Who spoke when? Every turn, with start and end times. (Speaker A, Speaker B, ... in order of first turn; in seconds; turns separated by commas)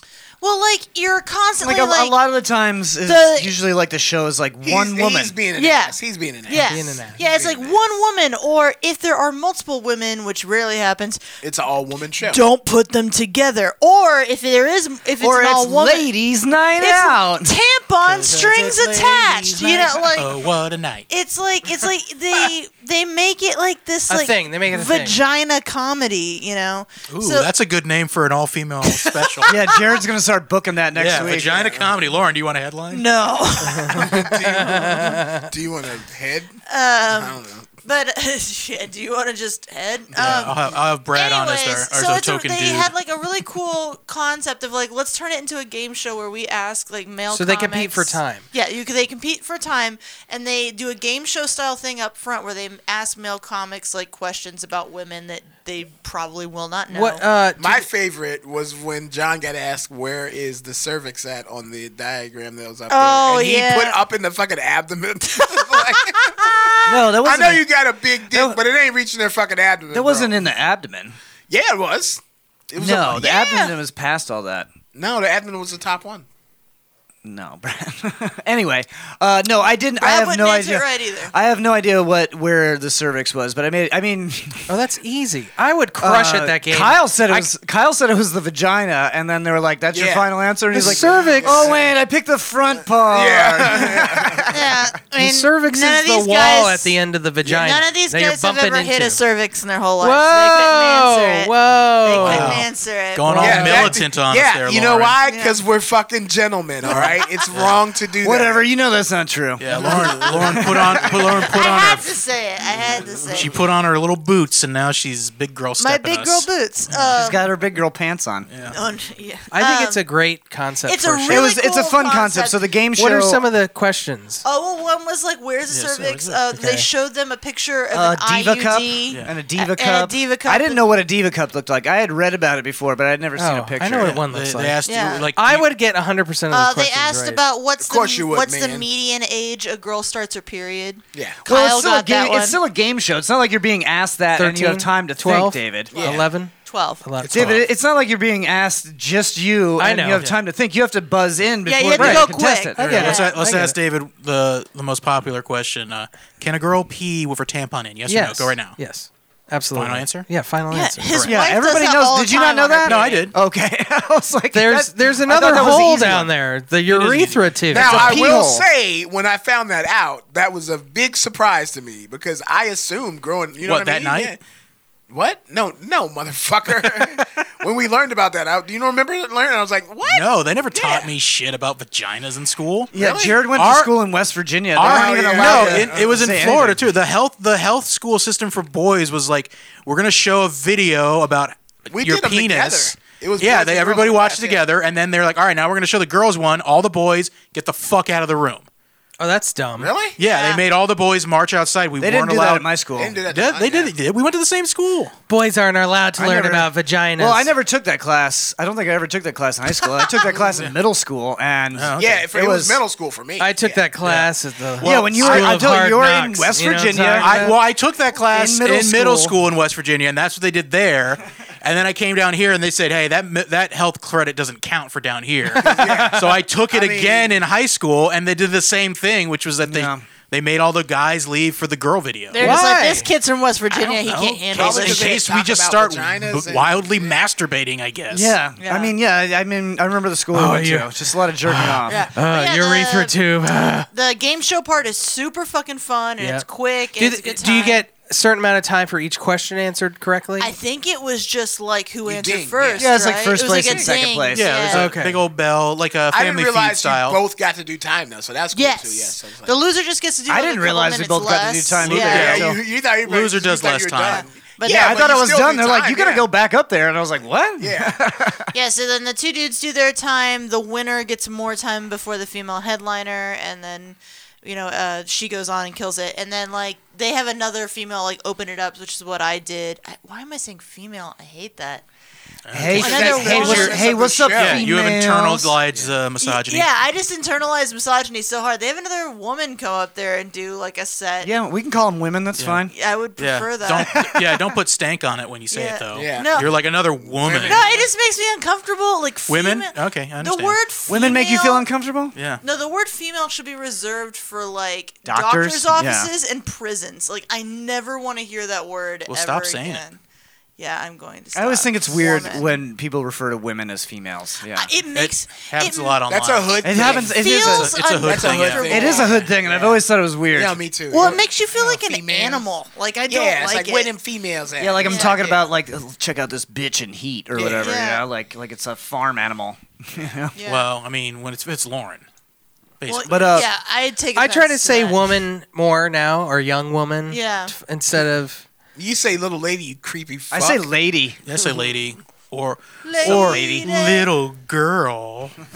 Speaker A: 0.4-2.1, Speaker B: 1.6-5.3, Speaker A: 3.0-3.5, Speaker C: 4.6-7.8, Speaker A: 5.5-11.2, Speaker D: 6.7-7.2, Speaker C: 11.4-12.4, Speaker A: 12.2-16.1, Speaker B: 15.2-17.5, Speaker A: 16.8-20.4, Speaker E: 18.0-21.1, Speaker A: 21.1-27.5, Speaker D: 24.1-25.2, Speaker E: 27.1-29.5, Speaker A: 28.8-30.0, Speaker B: 29.5-31.8, Speaker E: 30.9-33.0, Speaker C: 31.2-32.0, Speaker A: 32.9-34.3, Speaker D: 33.8-35.5, Speaker C: 33.9-36.6, Speaker A: 36.6-57.2, Speaker C: 37.1-37.7, Speaker C: 40.1-40.5, Speaker E: 40.2-42.9, Speaker D: 47.3-48.5, Speaker D: 56.9-57.9, Speaker C: 57.6-70.4, Speaker A: 62.9-64.0, Speaker A: 65.3-67.0, Speaker B: 66.8-67.7, Speaker B: 68.3-68.6, Speaker B: 69.9-71.2, Speaker C: 71.5-73.3, Speaker B: 72.8-74.7, Speaker A: 73.2-73.7, Speaker C: 74.9-76.2, Speaker B: 77.2-84.7, Speaker A: 80.0-81.3, Speaker D: 84.7-87.5, Speaker B: 86.0-94.7, Speaker C: 89.9-92.0, Speaker D: 90.7-91.7, Speaker C: 92.7-94.5, Speaker A: 94.5-103.8, Speaker D: 95.1-99.2, Speaker D: 100.0-102.7, Speaker E: 102.2-105.2, Speaker D: 103.3-103.9, Speaker C: 103.4-108.6, Speaker A: 105.2-105.6, Speaker A: 106.8-107.3, Speaker E: 106.8-107.8, Speaker B: 108.2-111.1, Speaker E: 109.6-112.1, Speaker C: 109.7-111.4, Speaker A: 111.4-113.5, Speaker C: 112.7-113.4, Speaker E: 113.3-117.1, Speaker A: 115.8-117.5, Speaker B: 117.1-118.5, Speaker E: 118.5-118.8, Speaker A: 118.7-120.0, Speaker D: 119.5-121.5, Speaker A: 120.8-122.6, Speaker B: 121.3-123.4, Speaker D: 123.0-124.4, Speaker A: 124.4-130.8, Speaker E: 125.7-126.4, Speaker D: 126.5-126.9, Speaker B: 127.9-134.2, Speaker D: 133.3-137.4, Speaker E: 133.9-135.7, Speaker A: 134.8-135.3, Speaker A: 136.5-142.6, Speaker C: 137.8-138.9, Speaker C: 141.1-141.4, Speaker B: 141.4-146.0, Speaker D: 144.3-147.6, Speaker C: 145.9-146.3, Speaker A: 146.6-147.0, Speaker E: 147.2-147.6, Speaker B: 147.3-153.1, Speaker C: 147.3-147.6, Speaker D: 149.8-150.2, Speaker A: 151.7-153.3, Speaker D: 152.0-153.7, Speaker E: 152.8-158.8, Speaker D: 158.1-161.3, Speaker E: 159.7-160.3, Speaker A: 160.7-163.3, Speaker B: 161.2-166.3, Speaker E: 162.8-163.3, Speaker D: 164.5-168.2, Speaker E: 166.9-168.2, Speaker C: 167.7-174.4, Speaker B: 167.7-168.7, Speaker E: 173.6-174.3, Speaker C: 175.1-181.1, Speaker E: 180.0-182.9, Speaker B: 182.9-186.8, Speaker C: 182.9-183.4, Speaker E: 183.5-183.9, Speaker E: 184.7-198.7, Speaker C: 184.8-186.4, Speaker C: 191.9-194.6, Speaker D: 199.2-199.9, Speaker C: 199.8-200.2, Speaker E: 200.2-202.7, Speaker A: 200.2-200.6, Speaker B: 202.0-203.2, Speaker C: 202.9-203.9, Speaker E: 203.3-205.1, Speaker D: 205.3-207.5, Speaker B: 206.2-212.8, Speaker E: 210.4-210.7, Speaker E: 211.7-212.3, Speaker C: 212.0-213.8, Speaker D: 213.4-217.6, Speaker E: 214.0-215.9, Speaker B: 214.8-217.5, Speaker E: 217.2-232.6, Speaker B: 218.3-219.3, Speaker C: 225.5-227.4, Speaker B: 229.6-230.0, Speaker A: 232.3-235.1, Speaker D: 232.4-233.1, Speaker E: 233.7-238.3, Speaker C: 234.5-237.2, Speaker B: 238.1-242.1, Speaker A: 238.6-238.9, Speaker D: 240.3-243.9, Speaker A: 241.9-243.2, Speaker A: 243.9-247.8, Speaker D: 246.2-250.5, Speaker A: 250.4-254.9, Speaker C: 252.1-252.9, Speaker B: 252.8-254.7, Speaker E: 254.3-257.2, Speaker D: 254.7-255.2, Speaker C: 256.1-259.5, Speaker A: 258.5-262.4, Speaker B: 260.3-262.6, Speaker E: 261.8-264.2, Speaker C: 262.0-266.2, Speaker A: 264.0-265.0, Speaker B: 264.6-268.5, Speaker C: 267.6-268.0, Speaker A: 268.5-281.8, Speaker E: 282.4-286.7, Speaker B: 282.5-285.6, Speaker C: 282.7-284.6, Speaker A: 282.8-283.9, Speaker A: 286.2-291.3, Speaker B: 291.2-292.7, Speaker E: 292.4-292.6, Speaker A: 292.7-293.9, Speaker E: 293.2-297.6, Speaker B: 293.8-294.5, Speaker A: 295.5-296.5, Speaker C: 295.9-297.9, Speaker A: 297.4-301.6, Speaker E: 299.3-300.6, Speaker B: 300.9-302.1, Speaker E: 302.1-302.4, Speaker A: 302.4-310.0, Speaker B: 305.0-306.1, Speaker E: 309.1-309.8, Speaker A: 310.6-312.6, Speaker B: 311.3-314.7, Speaker A: 314.5-316.0, Speaker E: 314.9-319.3, Speaker C: 316.1-317.2, Speaker B: 316.6-317.8, Speaker A: 316.7-319.1, Speaker C: 318.0-322.5, Speaker B: 318.6-321.1, Speaker A: 320.9-323.9, Speaker C: 323.1-325.3, Speaker B: 324.6-330.4, Speaker A: 324.8-325.4, Speaker C: 327.4-327.7, Speaker A: 327.5-328.0, Speaker A: 330.3-330.7, Speaker E: 330.4-332.0, Speaker E: 332.8-333.4, Speaker A: 332.9-335.2, Speaker B: 333.0-333.5, Speaker D: 334.1-338.4, Speaker A: 337.1-337.5, Speaker C: 338.8-340.6, Speaker B: 340.3-341.2, Speaker E: 341.2-345.4, Speaker A: 342.8-344.1, Speaker B: 343.0-343.7